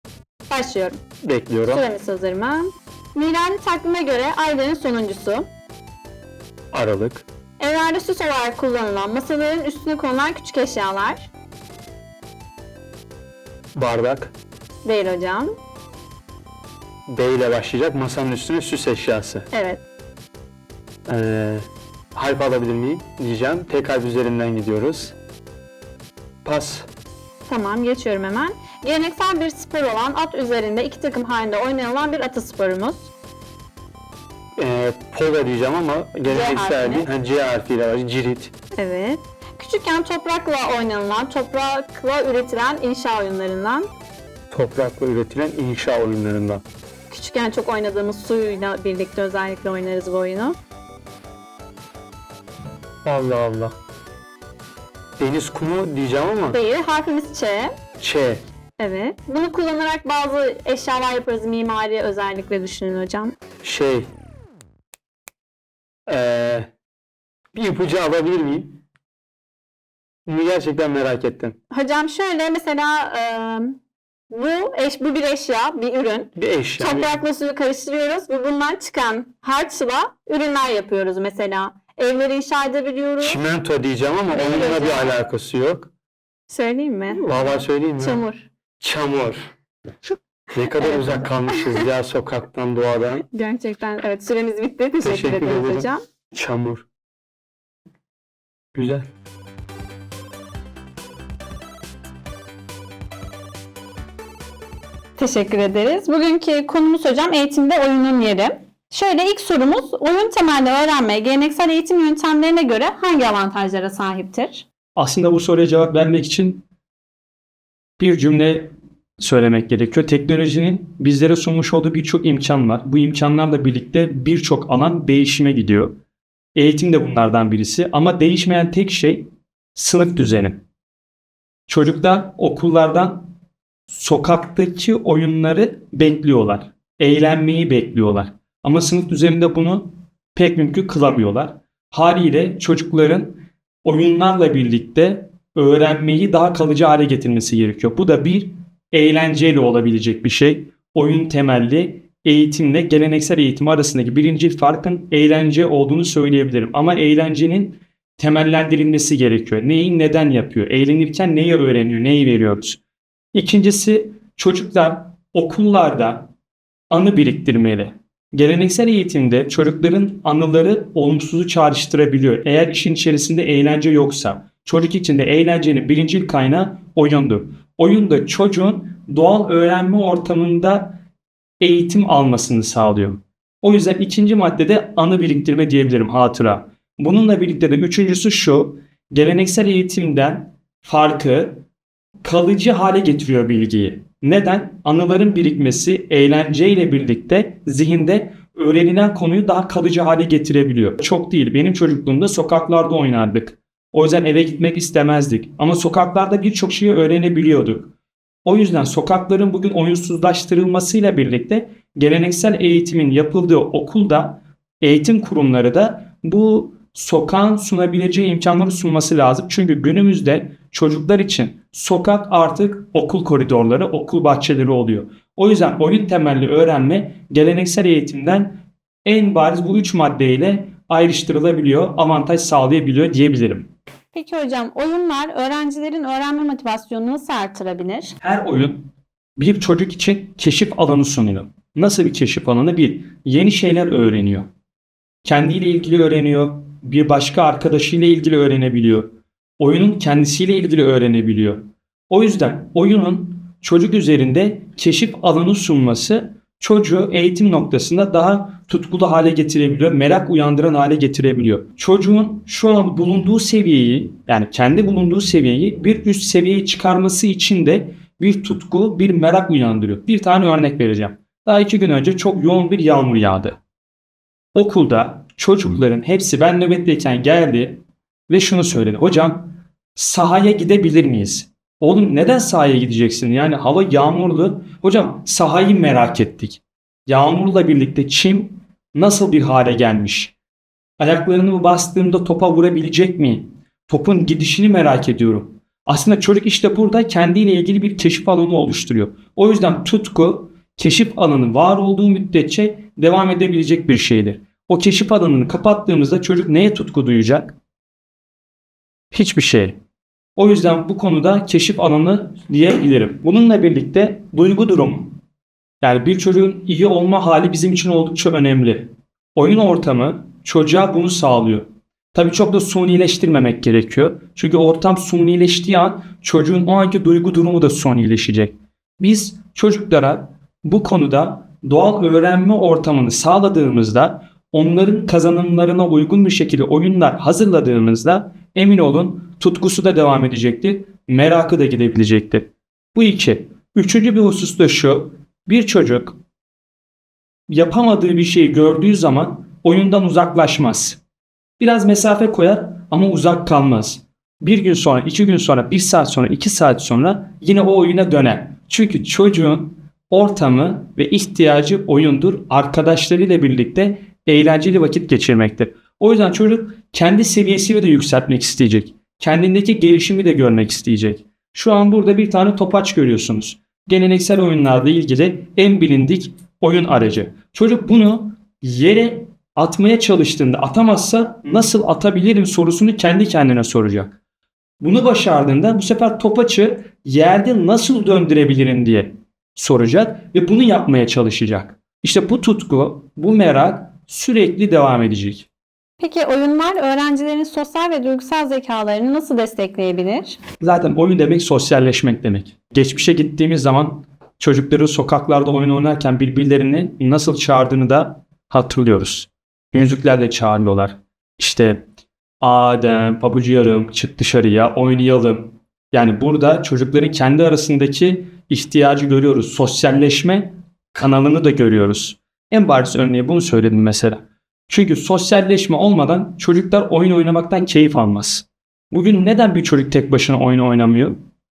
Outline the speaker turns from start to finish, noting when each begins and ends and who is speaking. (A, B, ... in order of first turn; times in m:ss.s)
0:00.5-0:01.0 A
0:01.2-0:01.8 B
0:01.6-0:05.5 A
0:06.7-0:07.2 B
0:07.6-0:11.3 A
0:13.7-0:14.3 B
0:14.8-0:15.6 A
0:17.1-0:19.4 B
0:19.5-0:19.8 A
0:21.1-0:25.1 B
0:26.4-0:26.9 B
0:27.4-0:33.1 A
0:34.6-0:38.5 B
0:36.2-0:37.1 A
0:38.8-0:43.9 A
0:44.5-0:46.6 B
0:47.1-0:50.6 A
0:53.0-0:53.7 B
0:55.2-0:56.6 B
0:56.5-0:57.7 A
0:58.0-0:58.4 B
0:58.8-1:03.3 A
1:03.6-1:04.1 B
1:06.1-1:06.7 B
1:07.5-1:08.8 B
1:10.2-1:11.6 B
1:11.7-1:13.8 A
1:14.3-1:23.4 A
1:16.4-1:17.1 B
1:23.2-1:25.9 B
1:24.3-1:25.1 A
1:26.5-1:28.5 A
1:27.1-1:28.2 B
1:28.8-1:29.4 B
1:30.5-1:33.2 B
1:30.8-1:31.8 A
1:33.3-1:36.0 A
1:35.0-1:36.8 B
1:38.7-1:39.0 B
1:45.2-1:54.6 A
1:55.0-1:56.6 C
1:58.0-2:06.0 C
2:06.5-2:10.6 C
2:11.7-2:13.3 C
2:13.9-2:42.8 C
2:43.3-2:46.3 C
2:46.9-3:01.0 C
3:01.6-3:11.6 C
3:12.2-3:27.9 C
3:28.4-3:53.7 C
3:54.1-3:58.2 A
3:58.2-4:04.5 C
4:05.2-4:33.6 C
4:34.5-4:50.3 C
4:51.0-5:07.6 C
5:09.1-5:09.8 C
5:10.4-5:15.2 C
5:15.8-5:46.2 C
5:47.5-5:51.0 C
5:51.6-6:24.1 C
6:24.8-6:35.5 C
6:36.0-6:40.4 A
6:40.6-6:51.8 C
6:52.4-7:11.2 C